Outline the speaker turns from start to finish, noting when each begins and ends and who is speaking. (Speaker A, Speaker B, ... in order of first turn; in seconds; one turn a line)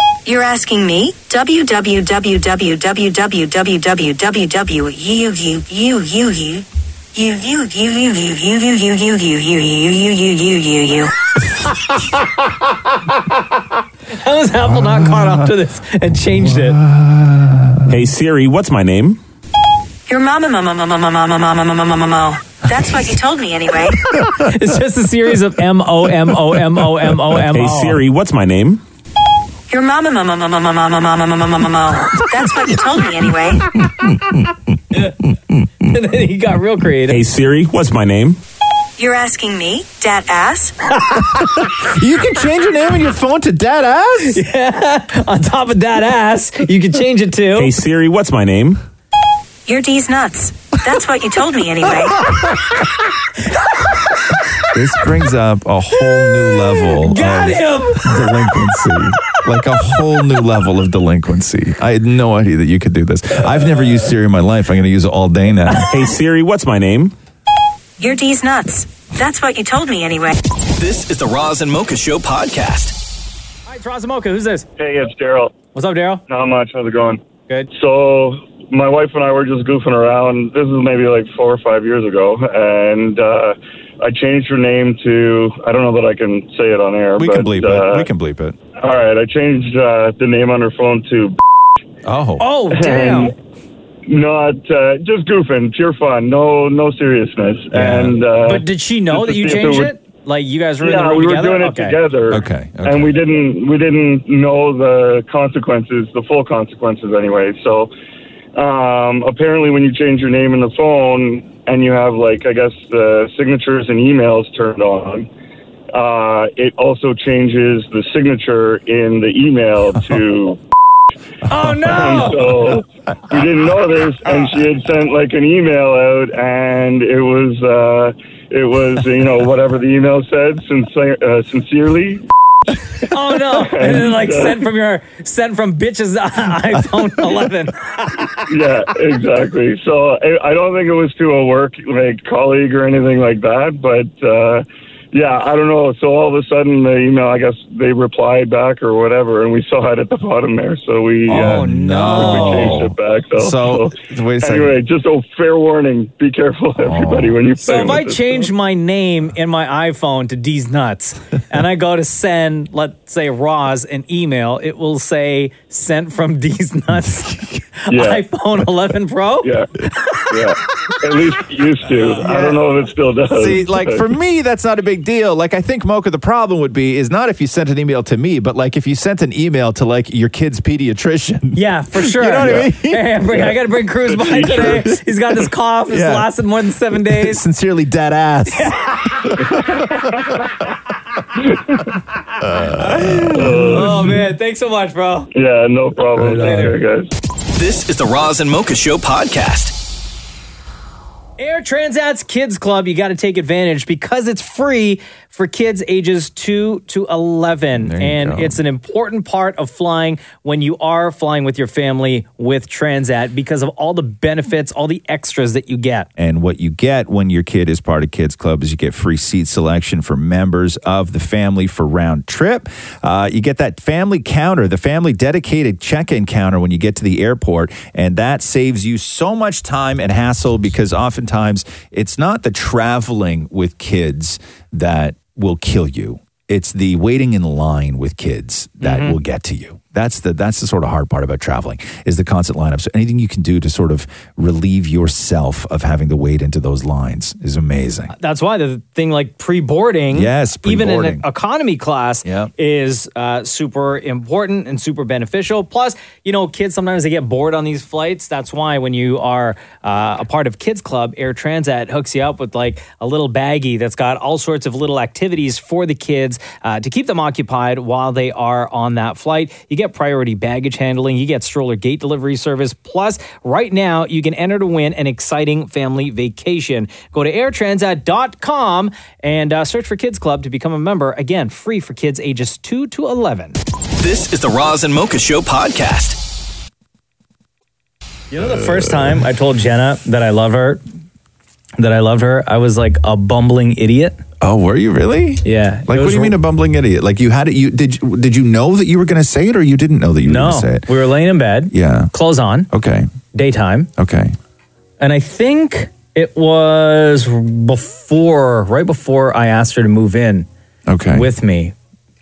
Speaker A: 0.2-11.1
Speaker B: 14.2-16.8
Speaker C: 16.4-17.9
Speaker D: 17.9-19.2
Speaker A: 20.1-24.0
Speaker B: 24.3-28.0
Speaker D: 27.3-28.8
Speaker A: 29.7-33.6
Speaker B: 35.9-37.2
Speaker D: 37.1-38.4
Speaker A: 39.0-40.7
Speaker C: 41.8-44.4
Speaker B: 44.3-47.7
Speaker D: 47.5-48.8
Speaker A: 49.7-52.2
Speaker C: 54.7-65.9
Speaker B: 57.0-58.1
Speaker D: 65.9-67.2
Speaker A: 68.0-70.3
Speaker E: 70.8-72.9
Speaker B: 73.7-74.7
Speaker F: 74.8-75.5
Speaker B: 75.7-76.2
Speaker F: 76.3-77.2
Speaker F: 77.7-88.1
Speaker C: 87.2-88.6
Speaker F: 88.8-91.4
Speaker C: 92.0-92.5
Speaker B: 92.4-93.3
Speaker F: 92.7-93.3
Speaker F: 94.1-99.9
Speaker C: 97.7-98.2
Speaker B: 98.5-102.0
Speaker F: 100.8-107.9
Speaker C: 102.3-103.2
Speaker F: 108.6-115.3
Speaker F: 115.9-120.6
Speaker B: 121.5-122.5
Speaker C: 121.6-122.4
Speaker F: 121.8-132.2
Speaker B: 133.1-138.4
Speaker F: 133.5-134.6
Speaker F: 138.5-158.5
Speaker C: 151.3-154.8
Speaker B: 151.3-152.8
Speaker C: 156.8-157.4
Speaker B: 157.6-170.2
Speaker C: 167.1-167.6
Speaker F: 167.9-168.2
Speaker F: 169.4-169.7
Speaker F: 170.3-174.1
Speaker C: 172.0-172.6
Speaker C: 173.3-183.2
Speaker B: 181.6-187.4
Speaker F: 184.2-184.7
Speaker C: 184.4-184.9
Speaker C: 185.9-186.3
Speaker C: 187.0-189.7
Speaker B: 188.5-189.0
Speaker C: 192.4-194.0
Speaker B: 192.8-195.3
Speaker F: 193.3-194.0
Speaker F: 195.3-197.1
Speaker C: 196.2-196.7
Speaker B: 196.3-196.7
Speaker E: 197.5-199.7
Speaker B: 201.4-216.1
Speaker C: 207.8-208.6
Speaker C: 216.2-248.1
Speaker B: 238.8-239.2
Speaker B: 248.1-283.6
Speaker C: 250.1-251.2
Speaker C: 252.2-252.5
Speaker E: 284.0-286.2
Speaker B: 288.3-290.8
Speaker B: 291.8-294.2
Speaker C: 294.4-300.9
Speaker B: 295.4-296.4
Speaker B: 300.3-302.7
Speaker C: 301.7-302.1
Speaker C: 302.7-303.1
Speaker B: 303.3-303.9
Speaker C: 304.0-304.4
Speaker B: 305.0-310.5
Speaker C: 310.9-311.3
Speaker B: 311.1-311.7